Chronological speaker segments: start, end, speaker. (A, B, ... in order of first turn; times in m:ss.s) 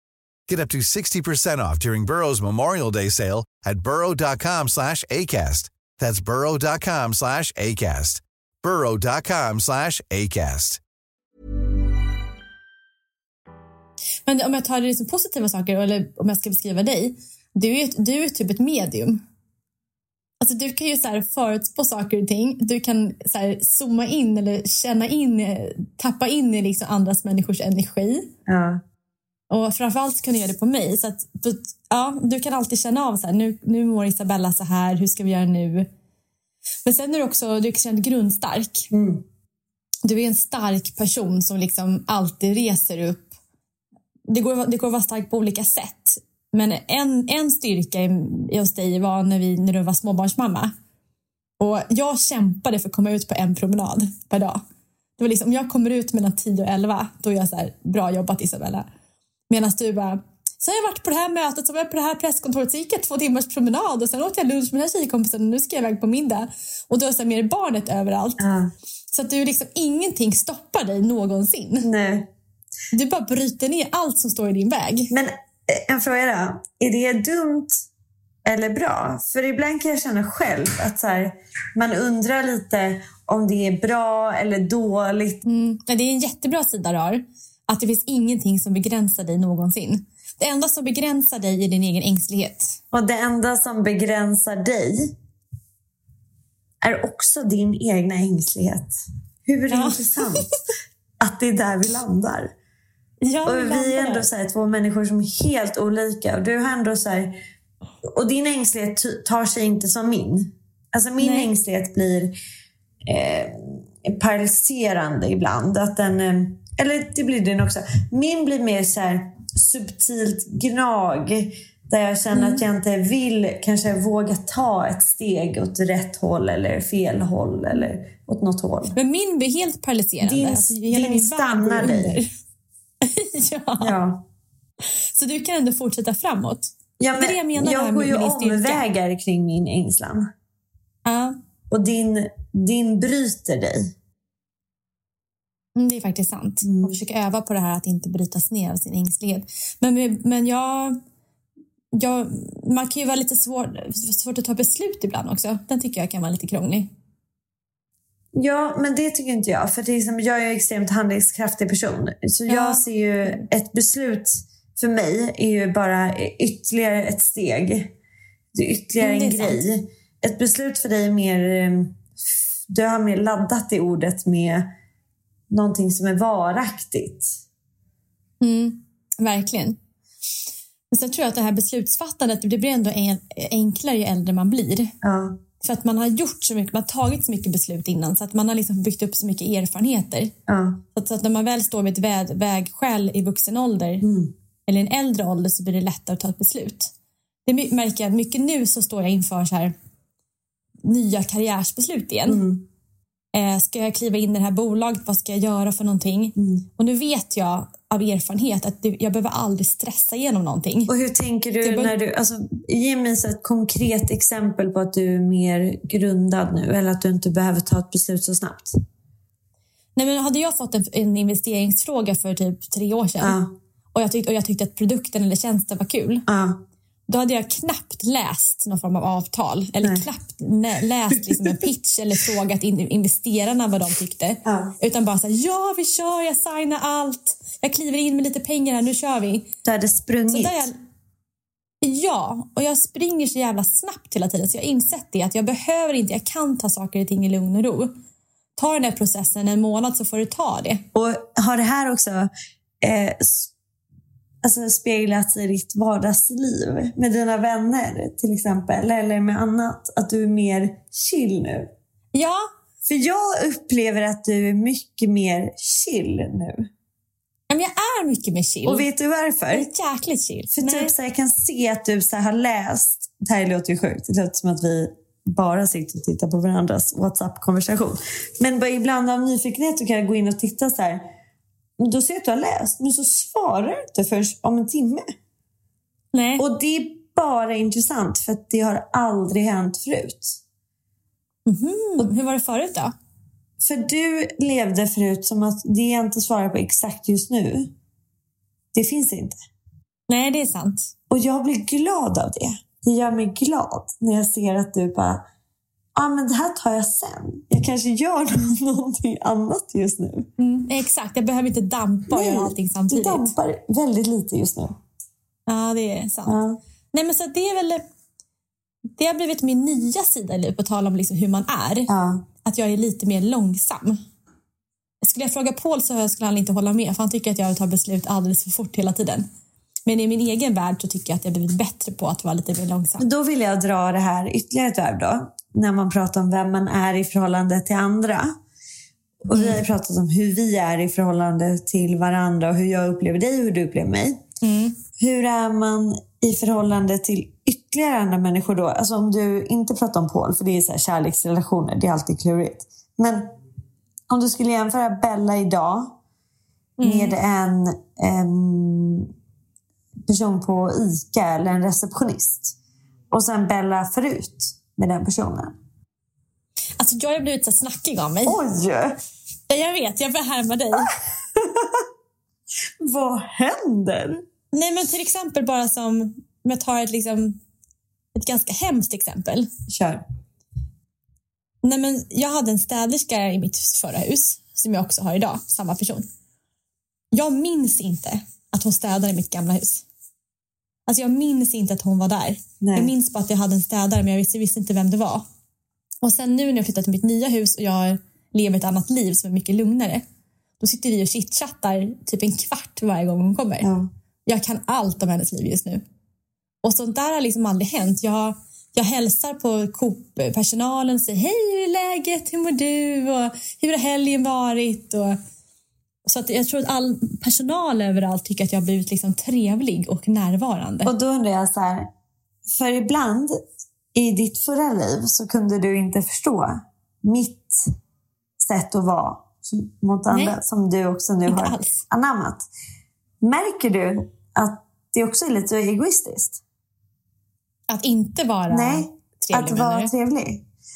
0:00.5-0:10.8 A
0:14.2-0:19.2 B
0:20.4-0:28.3 B
0:28.4-0:28.8 C
0:29.5-0:35.9 B
0:36.8-0:38.9 B
0:38.9-0:39.2 C
0:40.0-0:43.3 B
0:44.3-0:50.7 B
0:51.6-0:54.6 B
0:55.2-0:58.8 B
0:59.5-1:08.4 B
1:08.4-1:08.7 C
1:09.1-1:11.9 B
1:11.8-1:12.3 C
1:12.9-1:15.1 B
1:15.1-1:17.8 C
1:18.4-1:25.4 C
1:25.4-1:32.8 B
1:32.9-1:35.1 C
1:36.8-1:38.9 C
1:39.4-1:40.5 C
1:39.7-1:40.5 B
1:41.2-1:42.5 C
1:43.2-1:44.3 B
1:43.4-1:47.4 C
1:48.0-1:52.4 C
1:51.2-1:51.5 B
1:53.0-2:09.0 C
2:02.3-2:02.6 B
2:08.9-2:12.3 B
2:10.2-2:12.2 C
2:13.0-2:14.0 B
2:13.8-2:14.2 C
2:15.2-2:18.8 B
2:17.0-2:20.3 C
2:21.0-2:21.4 B
2:21.7-2:23.9 C
2:25.8-2:31.0 B
2:26.6-2:27.0 C
2:31.9-2:36.9 B
2:38.3-2:47.9 C
2:42.5-2:43.4 B
2:48.5-2:52.0 C
2:49.0-2:49.6 B
2:52.7-2:54.7 C
2:55.5-2:57.4 C
2:58.4-2:59.8 B
3:00.9-3:04.9 B
3:05.0-3:05.4 C
3:05.6-3:10.3 B
3:10.5-3:10.8 C
3:10.9-3:14.0 B
3:14.0-3:14.3 C
3:14.6-3:16.9 B
3:17.4-3:19.7 B
3:20.8-3:22.4 B
3:22.3-3:22.7 C
3:23.3-3:30.9 B
3:26.4-3:26.6 C
3:30.9-3:38.8 C
3:31.6-3:31.9 B
3:40.0-3:43.4 B
3:43.2-3:43.6 C
3:43.9-3:46.2 B
3:46.3-3:46.6 C
3:47.1-3:59.5 B
3:51.2-3:51.5 C
3:54.4-3:54.7 C
3:59.6-4:00.7 C
4:00.3-4:00.7 B
4:01.8-4:08.0 B
4:08.6-4:10.8 B
4:10.9-4:12.3 C
4:12.8-4:13.5 C
4:14.4-4:21.7 C
4:22.1-4:22.5 B
4:22.8-4:26.7 C
4:27.5-4:28.9 B
4:28.6-4:29.7 C
4:29.5-4:30.9 B
4:30.5-4:41.1 C
4:41.8-4:45.0 C
4:46.1-4:46.4 B
4:46.4-4:50.4 C
4:51.4-4:52.9 B
4:53.6-4:57.7 C
4:58.7-4:59.4 C
5:00.1-5:00.9 B
5:01.1-5:05.2 C
5:05.9-5:10.3 C
5:10.4-5:13.3 B
5:12.1-5:14.8 C
5:15.5-5:16.4 B
5:16.2-5:16.6 C
5:16.9-5:17.8 B
5:19.0-5:21.9 B
5:21.9-5:22.2 C
5:22.4-5:24.0 B
5:25.0-5:29.2 B
5:29.9-5:33.0 B
5:33.0-5:38.3 C
5:39.2-5:44.2 C
5:39.3-5:39.6 B
5:44.4-5:44.8 B
5:45.0-5:53.3 C
5:54.1-5:56.0 C
5:56.8-5:57.1 B
5:56.8-5:59.1 C
6:00.0-6:02.6 C
6:03.1-6:05.6 C
6:06.8-6:08.4 B
6:08.2-6:08.9 C
6:09.5-6:10.9 B
6:11.4-6:11.8 C
6:12.8-6:14.2 C
6:14.5-6:17.4 B
6:18.1-6:19.5 B
6:19.7-6:20.0 C
6:21.6-6:26.0 B
6:27.1-6:29.8 B
6:30.9-6:35.2 B
6:32.6-6:32.9 C
6:36.0-6:40.0 B
6:40.6-6:43.7 B
6:43.6-6:43.9 C
6:44.2-6:45.8 B
6:46.6-6:55.2 B
6:56.0-7:00.9 B
7:00.8-7:01.9 C
7:02.5-7:03.4 C
7:03.9-7:07.7 C
7:08.4-7:12.4 C
7:10.1-7:10.4 B
7:11.3-7:11.8 B
7:13.2-7:16.4 C
7:17.7-7:19.9 B
7:18.5-7:20.4 C